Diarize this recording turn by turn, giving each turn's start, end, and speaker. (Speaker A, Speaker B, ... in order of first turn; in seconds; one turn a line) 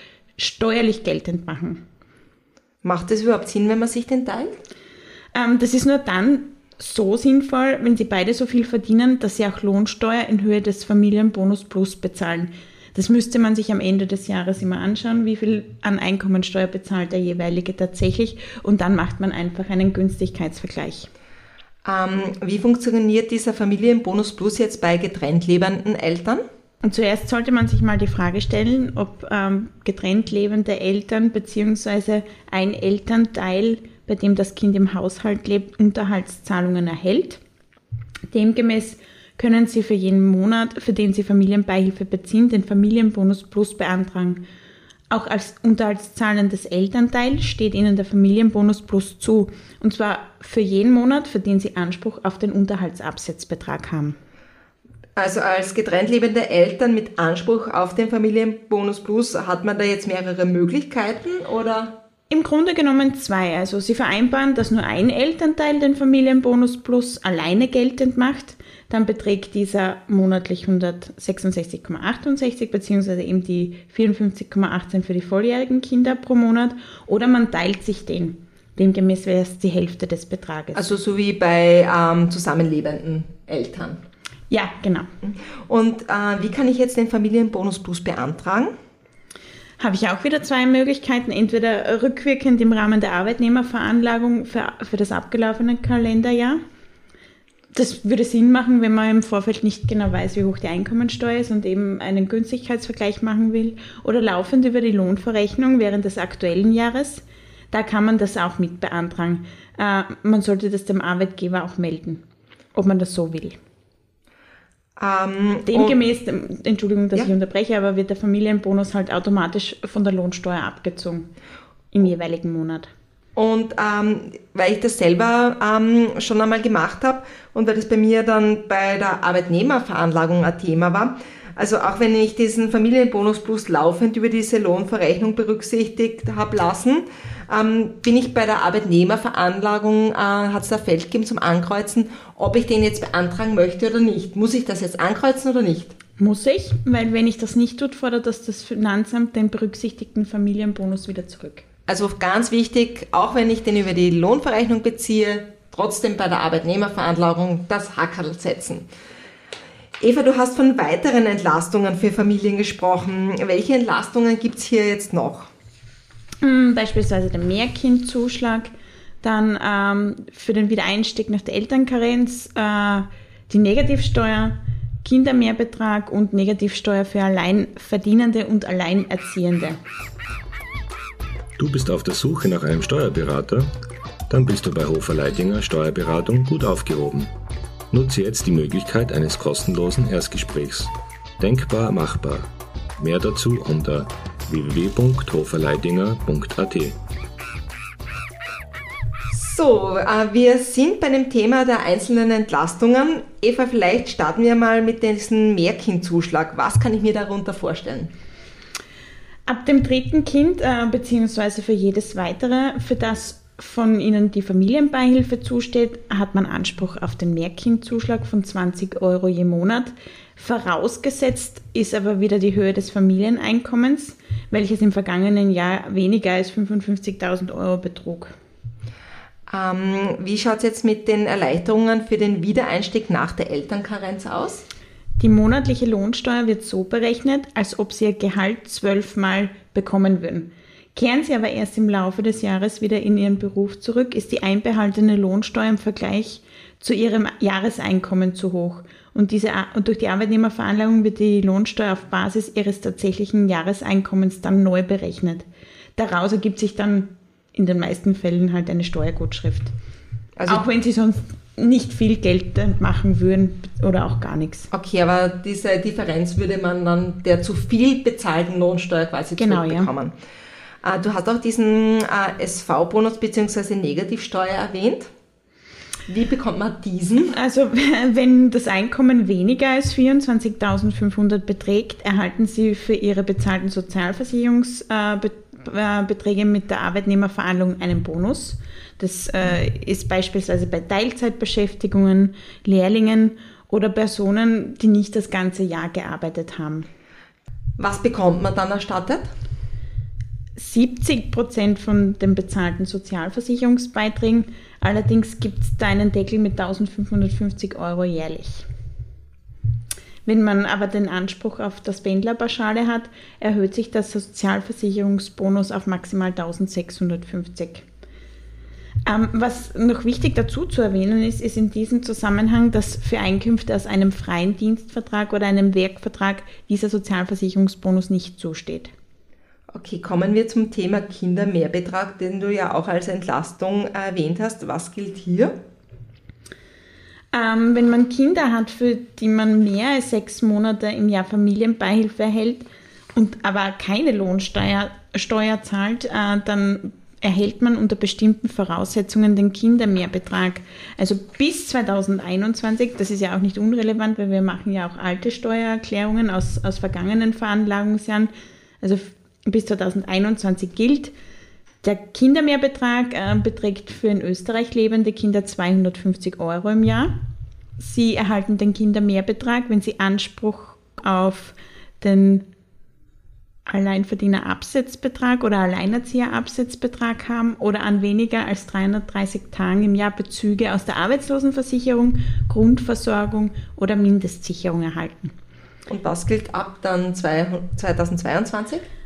Speaker A: 0.4-1.8
Speaker B: 2.8-4.5
Speaker A: 5.3-21.1
Speaker B: 21.8-26.4
Speaker A: 26.8-37.4
Speaker A: 38.3-44.4
Speaker A: 45.1-54.2
Speaker B: 55.2-61.9
Speaker A: 62.3-80.9
Speaker B: 80.8-84.0
Speaker A: 84.5-85.1
Speaker B: 85.7-88.7
Speaker A: 89.8-96.6
Speaker A: 97.7-112.2
Speaker A: 112.7-113.6
Speaker B: 115.0-116.0
Speaker A: 115.7-121.3
Speaker A: 121.9-122.9
Speaker B: 123.3-145.9
Speaker A: 146.2-151.7
Speaker B: 151.9-158.8
Speaker B: 160.0-165.5
Speaker A: 166.4-168.7
Speaker A: 169.2-179.8
Speaker C: 181.6-183.7
Speaker C: 184.3-187.3
Speaker C: 187.9-197.0
Speaker B: 199.3-208.1
Speaker A: 209.5-228.3
Speaker B: 229.5-234.6
Speaker A: 235.2-259.7
Speaker B: 260.4-260.6
Speaker A: 260.5-264.7
Speaker B: 264.7-270.1
Speaker A: 269.4-269.9
Speaker B: 270.8-275.1
Speaker B: 276.1-277.3
Speaker A: 277.3-296.9
Speaker B: 297.8-299.3
Speaker A: 300.6-308.6
Speaker A: 310.2-317.9
Speaker A: 319.1-328.9
Speaker B: 329.7-335.5
Speaker A: 337.3-358.3
Speaker A: 358.8-361.1
Speaker A: 361.8-367.1
Speaker A: 367.8-372.5
Speaker A: 373.6-385.3
Speaker B: 385.9-388.8